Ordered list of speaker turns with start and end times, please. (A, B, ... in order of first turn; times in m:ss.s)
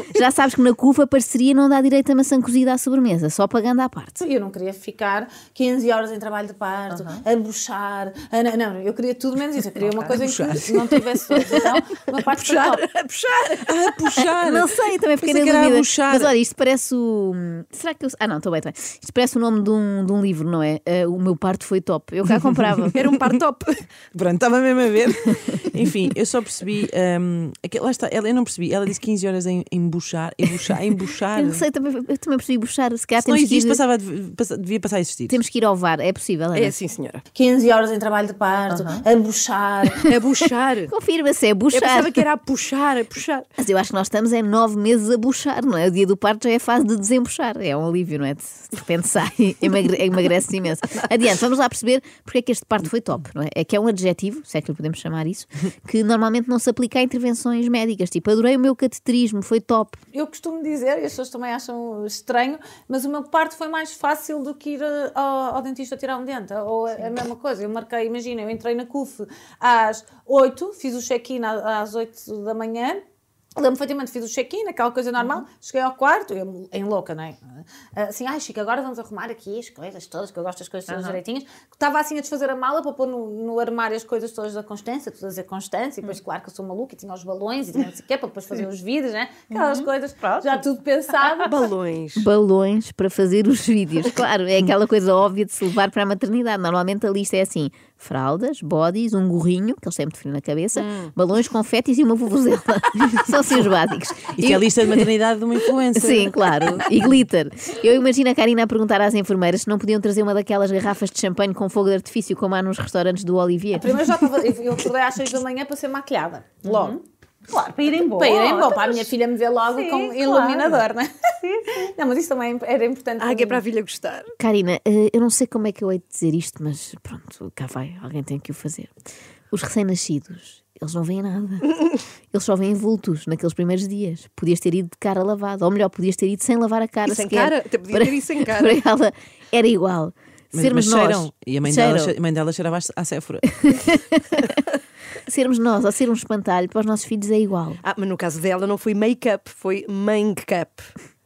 0:00.1-0:04.2 A
0:04.2-0:12.8 B
0:06.9-0:07.2 C
0:10.0-0:11.0 D
0:12.2-0:13.6 E
0:13.7-0:16.3 D
0:14.2-0:23.0 A
0:23.0-0:23.8 E
0:24.1-0:31.6 D
0:31.4-0:33.8 A
0:33.2-0:35.4 D
0:35.3-0:36.8 A
0:36.5-0:37.2 E
0:37.3-0:40.1 B
0:40.1-0:40.9 E
0:40.9-0:42.2 A
0:41.7-0:43.5 E
0:43.6-1:00.0 A
1:00.1-1:13.0 B
1:13.6-1:31.6 B
1:20.9-1:21.2 C
1:29.5-1:30.6 C
1:31.5-1:32.3 E
1:32.2-1:45.1 A
1:40.8-1:41.1 E
1:44.4-1:46.9 D
1:45.9-1:54.0 A
1:53.8-1:57.0 B
1:56.7-1:57.0 C
1:57.5-1:59.0 C
1:58.0-2:03.6 B
1:59.7-2:00.8 C
2:03.2-2:04.3 E
2:04.4-2:08.9 A
2:09.5-2:11.8 A
2:12.3-2:22.1 A
2:17.1-2:18.8 E
2:20.5-2:23.6 D
2:23.6-2:24.5 A
2:25.3-2:27.8 A
2:27.8-2:30.9 E